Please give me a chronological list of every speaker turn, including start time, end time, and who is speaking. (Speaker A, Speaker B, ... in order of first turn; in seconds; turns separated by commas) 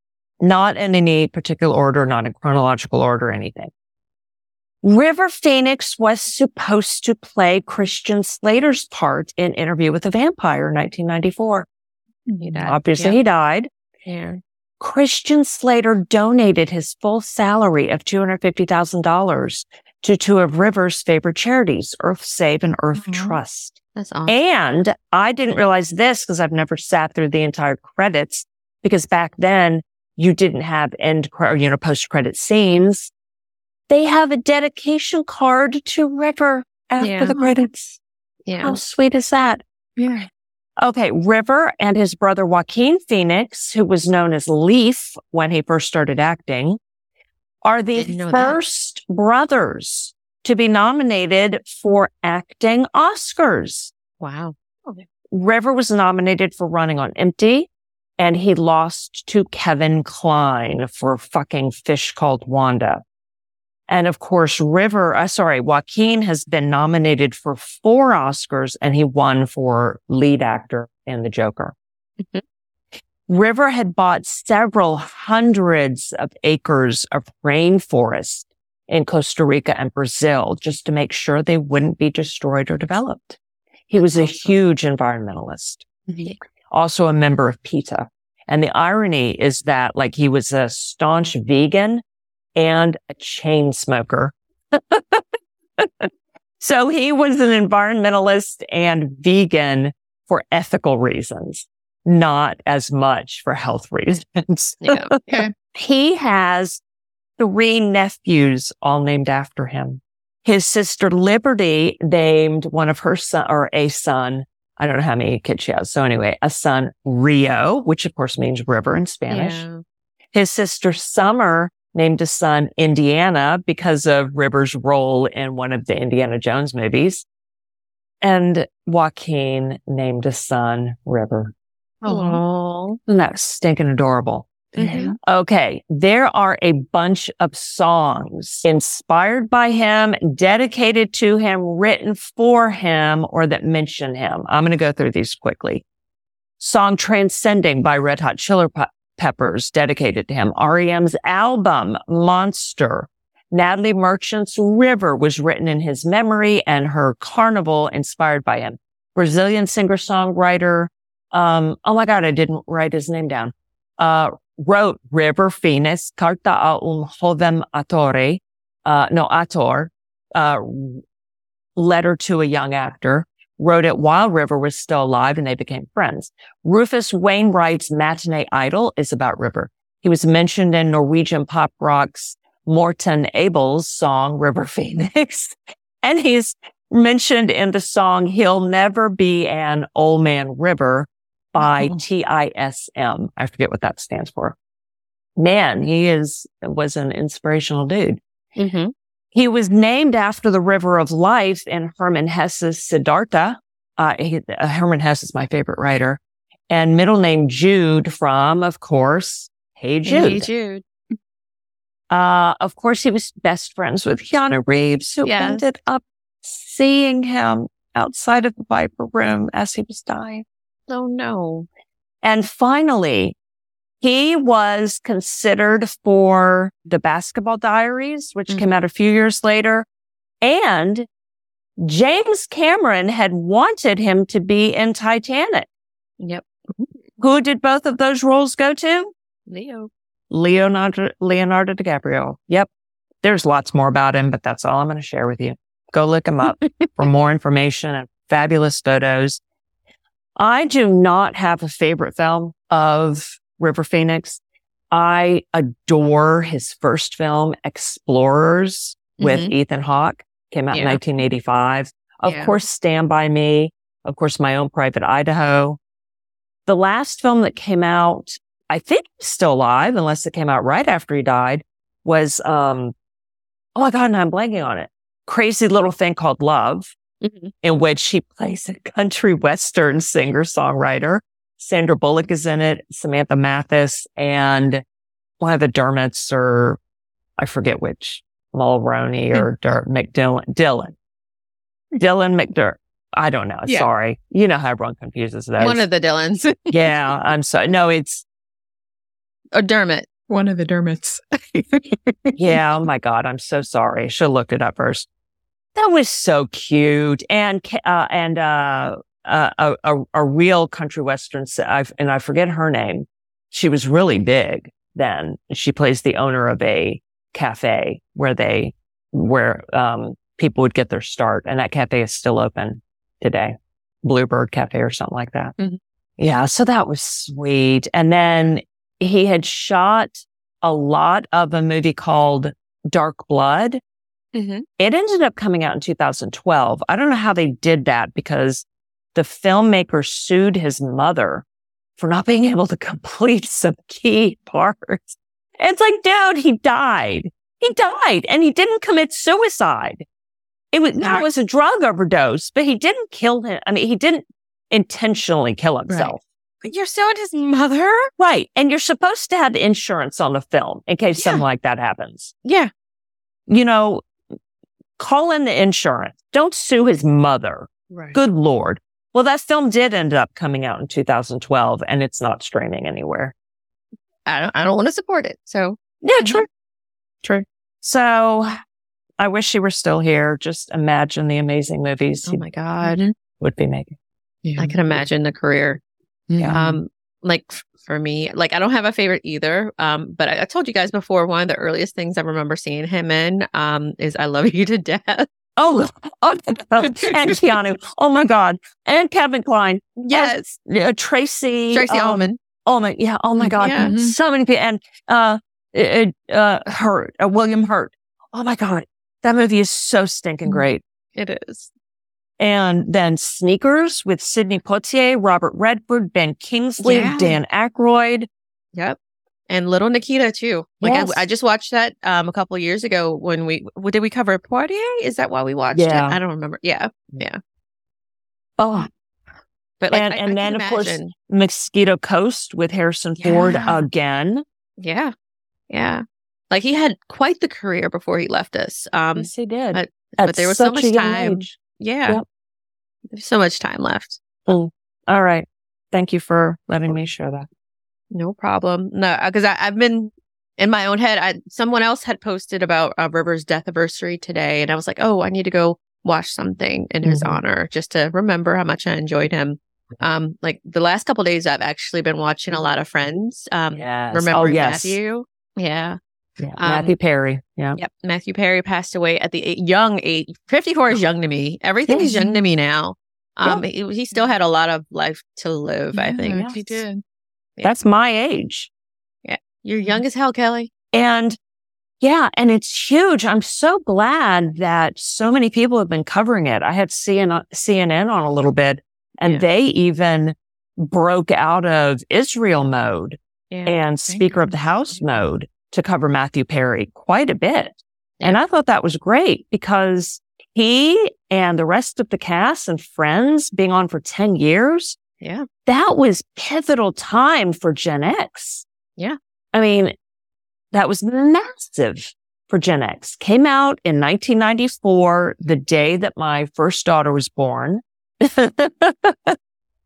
Speaker A: 0.4-3.7, Speaker A: 4.8-11.7, Speaker B: 12.3-12.7, Speaker C: 12.4-13.2, Speaker A: 12.6-13.7, Speaker C: 14.1-14.4, Speaker A: 14.8-33.1, Speaker B: 23.0-23.4, Speaker C: 23.9-24.4, Speaker A: 33.9-38.0, Speaker C: 37.0-37.3, Speaker C: 38.5-38.8, Speaker A: 38.6-39.6, Speaker B: 40.0-40.2, Speaker A: 40.8-46.8, Speaker A: 47.6-53.9, Speaker C: 48.0-48.6, Speaker C: 54.2-55.0, Speaker A: 55.3-63.0, Speaker A: 63.9-71.7, Speaker A: 73.3-83.4, Speaker A: 83.9-85.9, Speaker A: 86.7-92.0, Speaker A: 92.5-95.2, Speaker A: 95.8-105.2, Speaker C: 104.8-105.2, Speaker A: 105.7-106.8, Speaker A: 107.4-119.7, Speaker C: 119.3-119.8, Speaker A: 120.3-127.2, Speaker A: 128.2-131.5, Speaker B: 132.0-132.4, Speaker C: 132.1-133.0, Speaker A: 133.1-145.8, Speaker C: 134.8-135.1, Speaker B: 134.9-135.1, Speaker A: 146.6-171.0, Speaker A: 171.8-194.6, Speaker A: 195.4-198.2, Speaker C: 198.6-198.9, Speaker A: 199.3-210.5, Speaker C: 210.0-210.8, Speaker A: 212.1-220.4, Speaker C: 215.2-215.6, Speaker C: 220.9-221.7, Speaker A: 222.2-223.3, Speaker A: 224.0-229.8, Speaker A: 230.4-231.1, Speaker A: 231.8-235.7, Speaker C: 236.2-236.8, Speaker A: 237.2-239.1, Speaker C: 239.5-239.9, Speaker A: 240.3-242.7, Speaker A: 243.2-249.4, Speaker A: 250.4-254.4, Speaker A: 254.9-265.8, Speaker C: 259.2-259.5, Speaker C: 260.7-261.0, Speaker C: 262.3-262.5, Speaker A: 266.6-272.9, Speaker A: 273.7-276.9, Speaker C: 277.2-277.5, Speaker A: 277.6-284.8, Speaker A: 285.4-286.8, Speaker A: 287.4-290.9, Speaker A: 291.9-295.8, Speaker C: 295.6-296.8, Speaker A: 296.7-298.2, Speaker C: 299.5-300.1, Speaker B: 300.3-302.4, Speaker A: 302.4-305.1, Speaker A: 305.8-325.5, Speaker A: 326.2-333.8, Speaker C: 334.3-334.6, Speaker A: 334.8-341.4, Speaker A: 342.0-350.0, Speaker A: 350.7-356.2, Speaker B: 355.9-356.1, Speaker C: 356.6-358.1, Speaker A: 358.2-362.3, Speaker C: 361.2-361.4, Speaker C: 362.4-362.7, Speaker A: 363.5-364.1, Speaker A: 365.0-373.3, Speaker C: 367.9-368.2, Speaker C: 374.2-376.4, Speaker A: 376.0-376.4, Speaker A: 377.8-378.6, Speaker A: 379.2-382.4, Speaker C: 382.2-383.1, Speaker A: 383.4-383.9, Speaker B: 384.4-384.8, Speaker C: 384.6-385.8, Speaker B: 386.3-386.8, Speaker C: 386.5-395.3, Speaker A: 395.6-410.8, Speaker C: 400.0-400.6, Speaker C: 401.7-402.4, Speaker C: 403.4-403.9, Speaker B: 403.7-404.1, Speaker C: 411.1-411.7, Speaker A: 412.4-418.3, Speaker C: 416.8-417.4, Speaker C: 419.5-427.4, Speaker A: 420.8-421.2, Speaker A: 425.7-426.2, Speaker A: 428.6-428.9, Speaker C: 429.8-431.1, Speaker A: 429.9-434.4, Speaker C: 433.2-433.8, Speaker C: 434.8-435.1, Speaker C: 435.7-442.2, Speaker A: 439.1-441.5, Speaker C: 443.1-444.2, Speaker A: 444.5-447.5, Speaker C: 448.1-466.0, Speaker A: 457.0-457.4, Speaker A: 463.7-465.0, Speaker A: 466.4-467.8, Speaker C: 466.6-466.9, Speaker C: 467.8-476.8, Speaker B: 471.9-472.4, Speaker B: 475.9-477.0, Speaker A: 477.6-478.7, Speaker C: 479.2-480.7, Speaker A: 480.9-481.4, Speaker A: 482.0-505.0, Speaker C: 493.5-493.8, Speaker B: 494.1-495.0, Speaker C: 505.2-505.4, Speaker A: 505.6-508.6, Speaker A: 509.5-509.9, Speaker A: 510.7-519.4